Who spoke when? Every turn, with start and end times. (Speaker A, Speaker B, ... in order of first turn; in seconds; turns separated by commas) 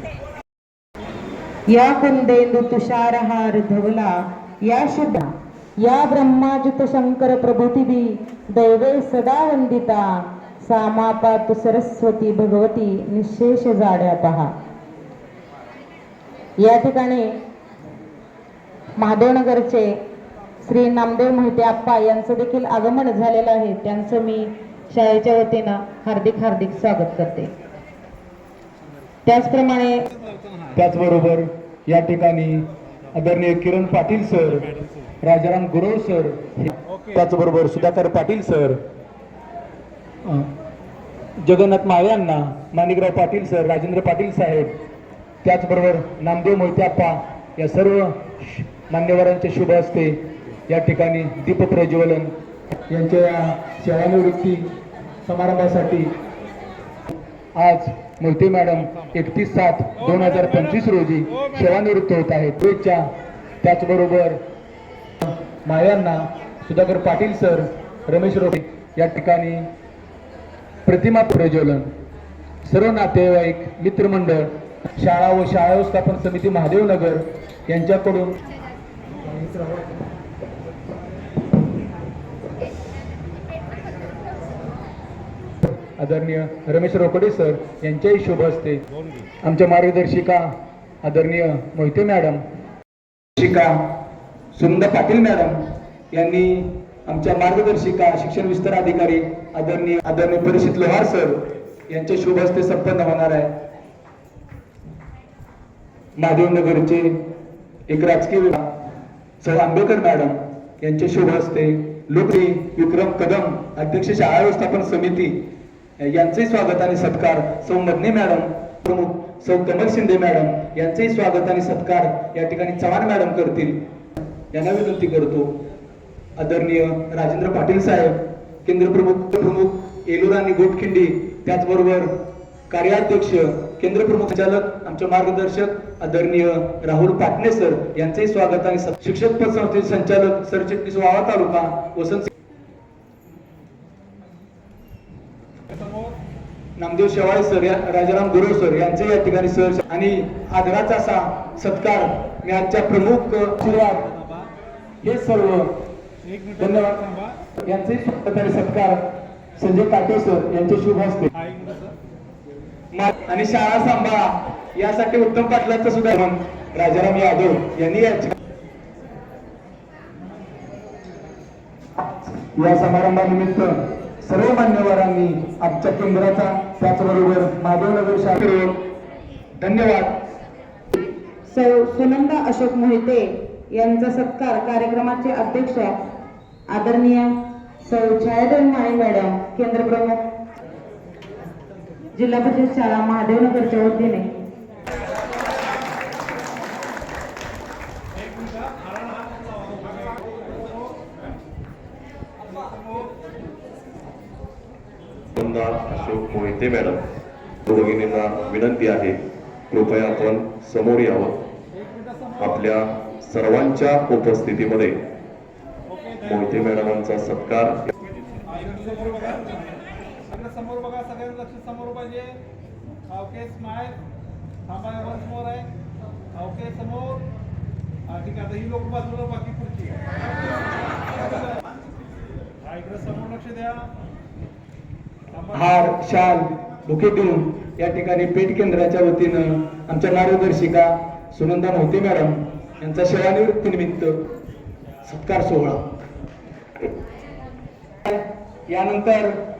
Speaker A: 1.7-10.0, Speaker A: 10.6-14.5, Speaker A: 16.6-17.3, Speaker A: 19.0-19.9, Speaker A: 20.6-27.5, Speaker A: 29.2-30.1, Speaker B: 30.2-30.7, Speaker C: 30.7-38.8, Speaker C: 41.4-44.7, Speaker C: 45.4-52.3, Speaker C: 52.9-54.7, Speaker C: 55.2-56.1, Speaker C: 57.5-63.1, Speaker C: 63.6-64.4, Speaker C: 65.2-69.7, Speaker C: 70.8-71.9, Speaker C: 72.6-78.4, Speaker C: 79.4-79.8, Speaker C: 85.6-88.8, Speaker C: 89.4-90.5, Speaker C: 91.0-92.4, Speaker C: 93.4-93.8, Speaker C: 94.5-95.6, Speaker C: 96.1-103.5, Speaker C: 106.2-107.1, Speaker C: 107.9-108.7, Speaker C: 109.4-115.3, Speaker C: 116.0-123.8, Speaker C: 124.5-125.5, Speaker C: 126.4-132.1, Speaker C: 132.7-142.3, Speaker B: 145.7-146.2, Speaker C: 146.8-154.1, Speaker C: 155.0-155.7, Speaker C: 156.6-159.0, Speaker C: 159.6-161.3, Speaker B: 161.4-161.9, Speaker C: 162.9-168.3, Speaker C: 172.4-178.8, Speaker C: 179.6-180.1, Speaker A: 181.4-185.9, Speaker A: 186.7-187.3, Speaker A: 187.8-190.2, Speaker A: 192.1-194.3, Speaker B: 198.5-200.9, Speaker D: 205.3-207.0, Speaker D: 207.7-209.2, Speaker D: 209.7-211.4, Speaker B: 211.8-212.3, Speaker D: 212.4-214.9, Speaker D: 216.2-217.8, Speaker B: 218.5-219.7, Speaker B: 220.3-222.4, Speaker B: 223.1-224.0, Speaker B: 224.7-225.7, Speaker B: 226.3-227.2, Speaker B: 228.1-230.0, Speaker B: 232.7-233.9, Speaker C: 235.5-244.2, Speaker C: 245.0-245.8, Speaker C: 248.0-249.3